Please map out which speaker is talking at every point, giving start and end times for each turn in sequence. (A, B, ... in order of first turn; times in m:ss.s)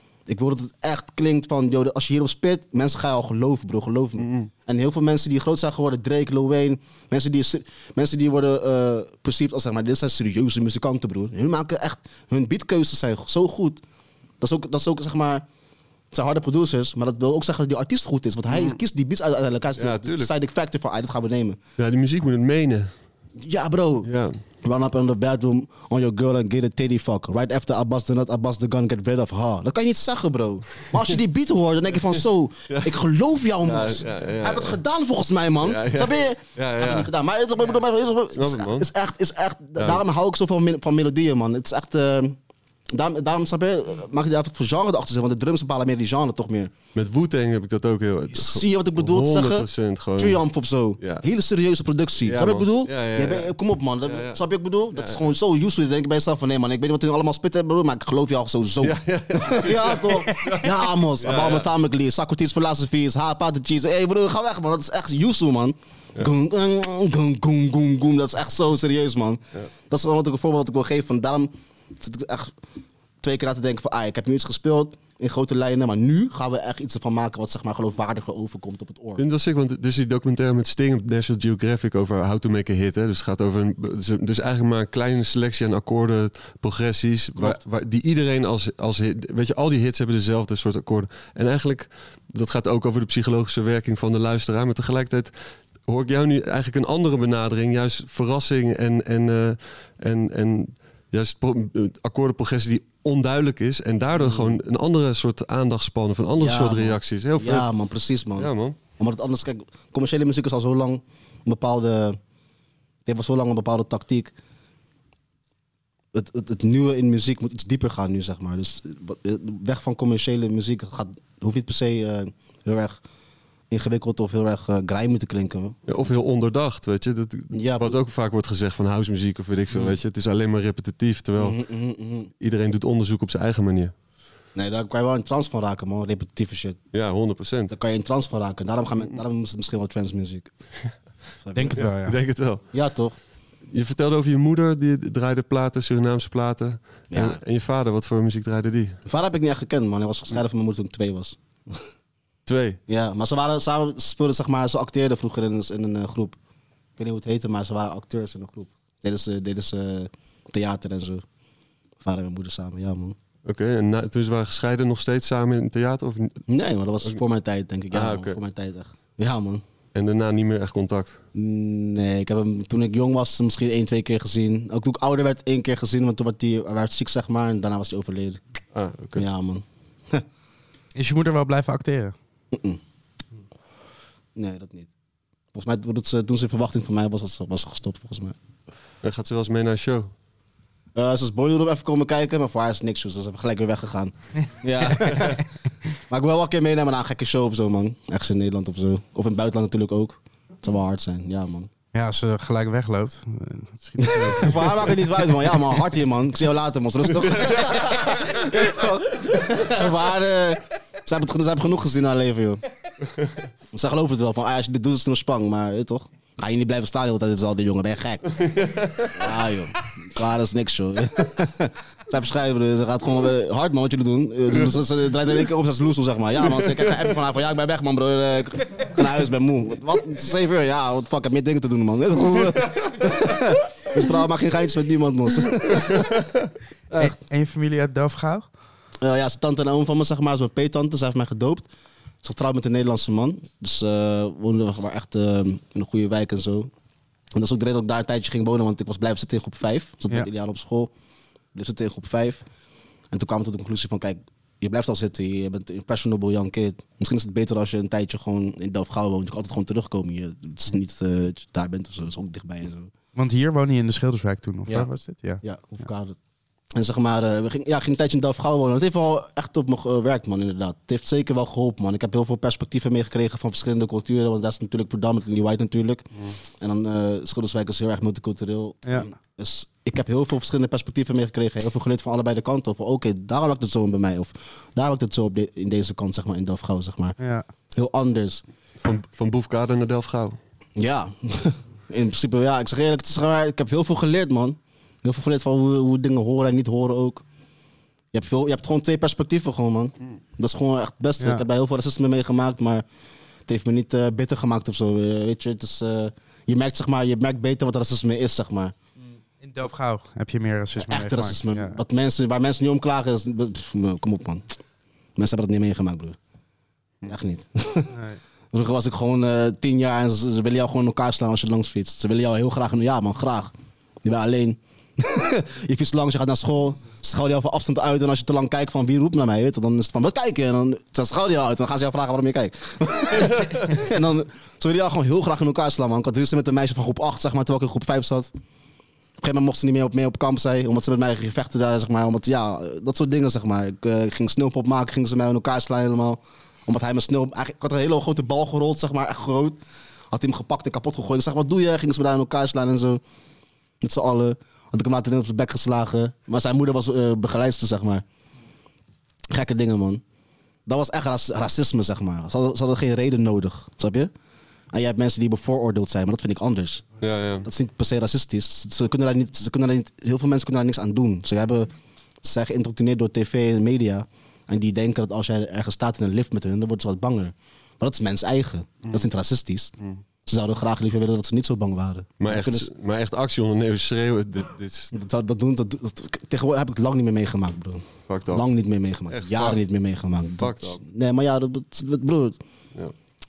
0:00.3-0:13.8 A
0:04.2-0:04.5 B
0:14.4-0:15.4 A
0:16.1-0:21.6 A
0:18.5-0:18.8 B
0:19.8-0:20.3 B
0:21.8-0:23.0 B
0:23.4-0:42.4 A
0:24.0-0:24.4 B
0:33.6-0:34.8 B
0:35.6-0:37.1 B
0:38.4-0:38.9 B
0:39.8-0:40.0 B
0:42.9-0:46.7 A
0:47.0-0:50.4 B
0:48.3-1:12.6 A
0:51.0-0:51.2 B
0:52.2-0:54.4 B
0:55.0-0:55.2 B
0:58.8-1:01.7 B
1:13.2-1:19.2 A
1:19.2-1:47.7 B
1:44.2-1:44.6 A
1:46.4-1:52.2 A
1:48.4-1:48.8 B
1:53.1-1:54.3 A
1:56.1-2:03.0 A
2:03.7-2:05.9 A
2:05.9-2:11.6 B
2:07.5-2:08.0 A
2:11.4-2:12.3 A
2:12.4-2:13.9 B
2:14.6-2:16.9 A
2:16.9-2:17.7 B
2:17.7-2:20.5 A
2:21.4-2:21.8 A
2:21.5-2:22.2 C
2:21.8-2:22.7 B
2:22.7-2:23.2 A
2:23.7-2:29.0 B
2:27.1-2:27.4 A
2:29.1-2:31.8 A
2:32.5-2:32.8 B
2:32.9-2:36.4 A
2:37.0-2:41.2 A
2:42.0-2:43.2 A
2:43.4-2:46.4 B
2:46.5-2:49.6 A
2:47.9-2:48.4 B
2:50.0-2:51.2 B
2:51.3-2:58.4 A
2:58.7-2:59.2 B
2:59.2-3:00.2 A
3:01.0-3:02.2 C
3:02.5-3:02.8 A
3:04.4-3:04.9 A
3:05.5-3:08.4 A
3:09.0-3:10.1 B
3:11.0-3:15.4 A
3:14.8-3:15.4 C
3:16.0-3:21.7 A
3:21.9-3:24.8 C
3:24.0-3:32.6 A
3:33.7-3:38.4 A
3:38.4-3:39.2 B
3:39.1-3:56.1 A
3:57.0-3:58.5 C
3:59.0-4:01.7 A
4:02.2-4:06.7 A
4:07.3-4:10.9 A
4:11.5-4:12.4 A
4:13.1-4:22.9 A
4:23.2-4:25.4 C
4:25.4-4:26.2 A
4:26.8-4:47.2 A
4:47.2-4:47.5 C
4:47.7-4:48.4 A
4:48.8-4:50.4 B
4:50.8-4:57.2 A
4:58.1-5:02.8 A
5:01.2-5:01.4 C
5:03.5-5:08.8 A
5:09.4-5:11.8 C
5:10.8-5:14.5 A
5:15.2-5:16.2 A
5:17.1-5:17.9 A
5:17.9-5:18.2 C
5:18.5-5:23.5 A
5:24.0-5:38.3 A
5:39.2-5:49.6 A
5:50.1-5:53.0 A
5:53.8-5:58.0 A
5:59.3-6:00.0 A
6:00.7-6:04.1 A
6:04.7-6:11.7 A
6:07.0-6:07.5 B
6:12.2-6:19.7 A
6:20.3-6:22.7 A
6:22.2-6:24.9 B
6:24.9-6:32.4 A
6:28.1-6:28.4 B
6:29.1-6:29.6 B
6:30.4-6:30.8 B